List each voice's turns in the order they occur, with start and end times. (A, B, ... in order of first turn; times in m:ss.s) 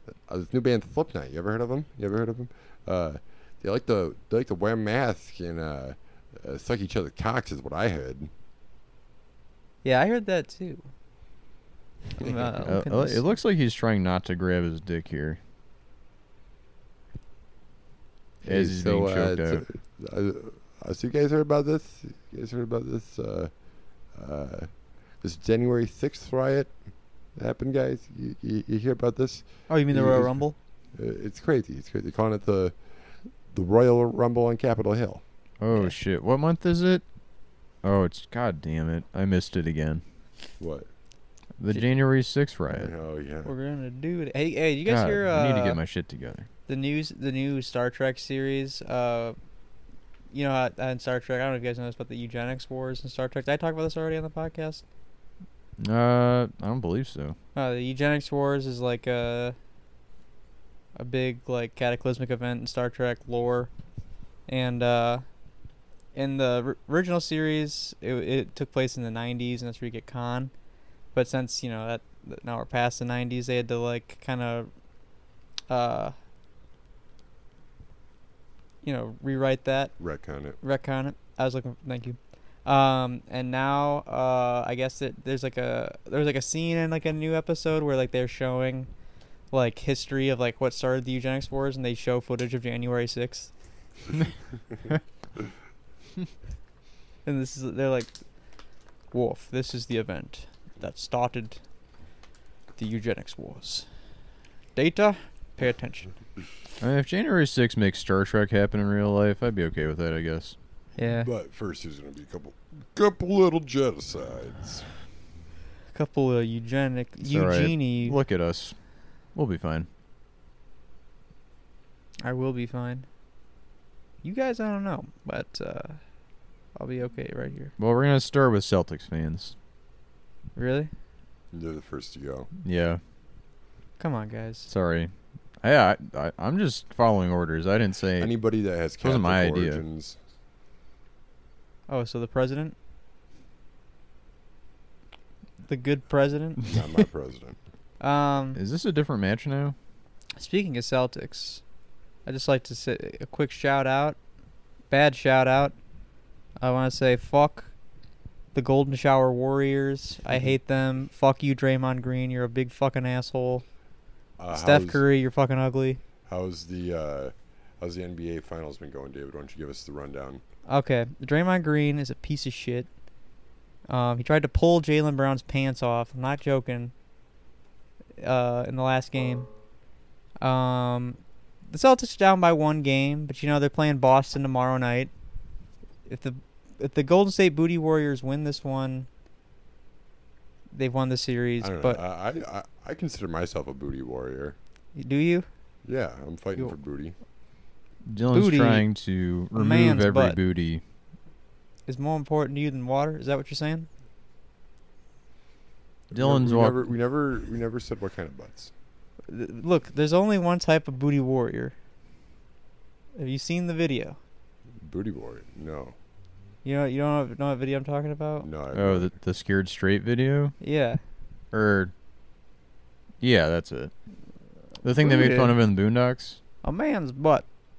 0:00.3-0:08.3 A
0:09.8-0:10.9 B
0:12.2-0:13.2 B
0:12.2-0:12.5 A
0:12.6-0:15.4 C
0:18.4-0:23.5 A
0:18.4-0:19.6 C
0:24.1-0:26.7 A
0:27.4-0:30.4 A
0:29.7-0:30.6 B
0:31.0-0:32.7 A
0:33.5-0:35.2 A
0:35.6-0:37.0 C
0:37.8-0:40.0 C
0:40.6-0:40.9 A
0:41.6-0:42.9 C
0:42.7-0:43.5 A
0:43.4-0:45.8 B
0:44.8-0:46.5 C
0:46.7-0:49.4 B
0:50.3-0:54.8 B
0:55.8-0:57.4 C
0:57.5-0:59.6 B
1:01.0-1:03.7 B
1:04.5-1:05.2 B
1:06.1-1:10.5 B
1:11.1-1:14.7 B
1:15.7-1:16.1 B
1:18.8-1:19.9 B
1:20.0-1:20.6 A
1:20.6-1:28.9 B
1:29.5-1:33.5 B
1:37.2-1:38.1 B
1:39.1-1:41.6 B
1:42.8-1:43.9 B
1:44.8-1:46.1 B
1:46.8-1:50.6 C
1:51.0-1:51.3 B
1:51.2-1:54.9 A
1:55.9-1:58.2 B
1:57.2-1:58.8 C
1:59.3-1:59.9 C
2:02.2-2:03.1 B
2:04.2-2:06.0 B
2:06.7-2:07.7 B
2:07.8-2:09.5 C
2:10.6-2:10.9 B
2:11.5-2:12.5 A
2:12.6-2:13.0 C
2:14.0-2:14.7 B
2:14.7-2:18.3 C
2:18.2-2:20.2 A
2:19.0-2:19.8 C
2:21.9-2:22.7 B
2:25.6-2:26.8 B
2:26.6-2:27.6 A
2:28.0-2:28.6 B
2:28.6-2:29.7 C
2:30.4-2:31.6 B
2:32.2-2:34.2 B
2:34.9-2:35.7 B
2:36.6-2:37.7 B
2:38.5-2:43.6 B
2:44.4-2:45.0 A
2:44.5-2:46.0 B
2:46.3-2:50.4 A
2:50.7-2:52.9 B
2:53.9-2:56.9 B
2:58.2-2:59.5 B
3:00.4-3:05.1 B
3:06.1-3:09.1 B
3:10.7-3:12.0 B
3:11.6-3:14.6 A
3:14.9-3:15.5 B
3:15.8-3:17.1 A
3:18.0-3:20.8 C
3:18.3-3:18.8 B
3:19.5-3:20.4 B
3:21.9-3:23.9 B
3:26.1-3:28.7 A
3:26.1-3:26.8 C
3:29.3-3:31.7 B
3:33.2-3:34.2 B
3:34.8-3:35.9 A
3:36.6-3:38.5 B
3:38.4-3:39.1 A
3:38.7-3:40.5 C
3:40.6-3:41.0 B
3:41.5-3:41.9 C
3:43.2-3:43.9 C
3:44.8-3:46.4 C
3:45.0-3:45.5 B
3:46.6-3:47.5 B